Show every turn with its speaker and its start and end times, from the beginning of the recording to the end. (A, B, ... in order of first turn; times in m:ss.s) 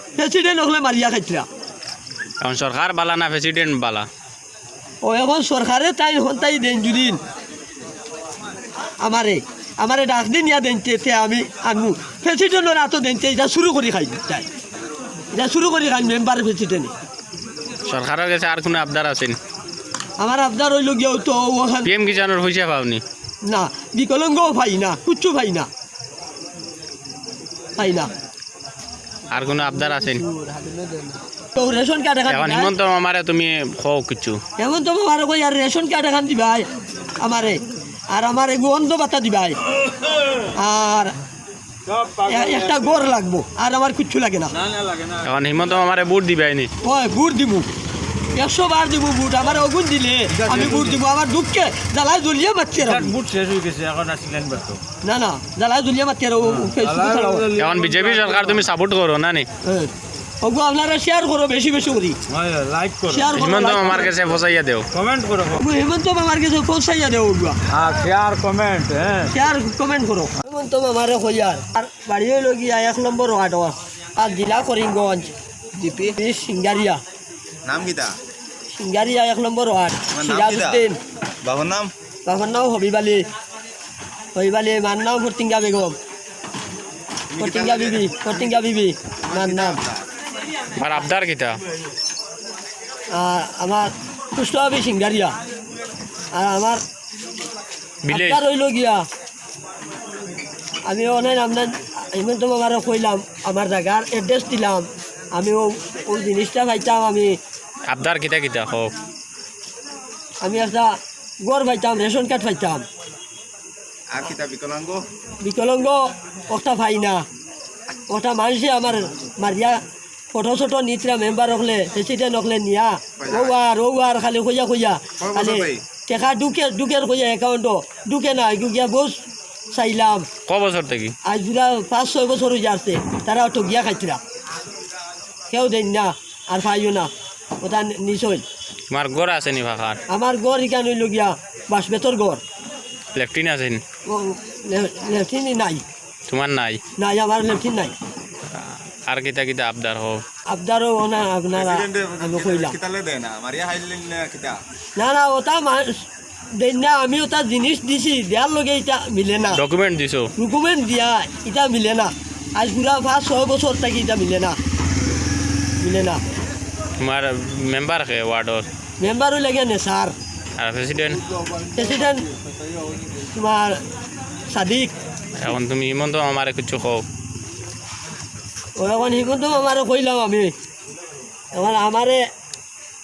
0:00.2-0:01.4 A
0:02.4-0:04.1 B
0:05.0-0:07.2 A
0:09.0-0:14.4 A
0:15.3-0:16.9 A
0:17.9-0:19.4 B
0:20.2-0:21.9 A
0:21.8-0:23.0 B
0:23.4-0:25.7 A
0:27.8-0:28.1 A
0:29.3-0:30.2 B
0:29.4-0:31.2 C
0:31.6-0:32.7 A
0:32.3-0:34.4 B
0:34.6-0:36.7 A
0:37.2-0:39.6 A
0:40.5-0:41.1 A
0:41.9-0:43.0 D
0:42.3-0:44.5 A
0:44.5-0:45.2 D
0:45.2-0:46.7 B
0:46.8-0:47.7 A
0:48.4-0:53.1 A
0:50.4-0:50.9 D
0:52.8-0:54.8 D
0:55.0-0:57.5 A
0:56.4-0:58.6 D
0:57.6-0:59.5 B
0:59.6-0:59.9 A
1:00.4-1:02.2 A
1:02.3-1:03.3 D
1:03.1-1:04.1 A
1:03.3-1:04.9 B
1:04.9-1:05.6 D
1:05.5-1:07.6 A
1:07.7-1:09.3 D
1:09.3-1:15.3 A
1:15.8-1:16.2 C
1:16.2-1:17.0 A
1:17.6-1:18.1 E
1:18.7-1:21.0 A
1:20.1-1:20.8 E
1:21.4-1:21.9 E
1:22.2-1:23.2 A
1:24.4-1:26.0 A
1:27.3-1:28.5 E
1:27.4-1:29.8 A
1:29.3-1:30.0 E
1:30.7-1:31.6 B
1:33.1-1:35.3 A
1:36.3-1:36.8 A
1:38.0-1:38.4 B
1:38.1-1:39.0 A
1:40.9-1:47.4 A
1:47.9-1:48.9 B
1:50.4-1:52.8 A
1:54.1-1:55.0 E
1:55.4-1:57.2 A
1:58.1-1:59.8 A
2:00.3-2:09.2 A
2:03.2-2:03.6 E
2:05.2-2:05.8 E
2:09.7-2:10.3 A
2:10.5-2:11.1 B
2:11.2-2:14.2 A
2:15.5-2:17.1 A
2:17.6-2:18.4 A
2:18.9-2:20.0 B
2:20.1-2:22.4 A
2:23.1-2:23.8 B
2:24.1-2:25.8 A
2:26.3-2:26.8 B
2:27.0-2:27.9 A
2:28.6-2:30.2 B
2:30.5-2:32.8 A
2:31.5-2:34.6 E
2:35.0-2:39.6 A
2:39.5-2:40.3 B
2:40.4-2:44.6 A
2:45.8-2:46.2 A
2:47.0-2:48.6 B
2:49.0-2:50.1 A
2:50.6-2:51.2 B
2:51.4-2:53.1 D
2:51.8-2:52.2 A
2:53.3-2:53.8 A
2:54.5-2:54.9 A
2:55.4-2:57.0 B
2:58.8-3:00.5 A
3:01.5-3:02.2 A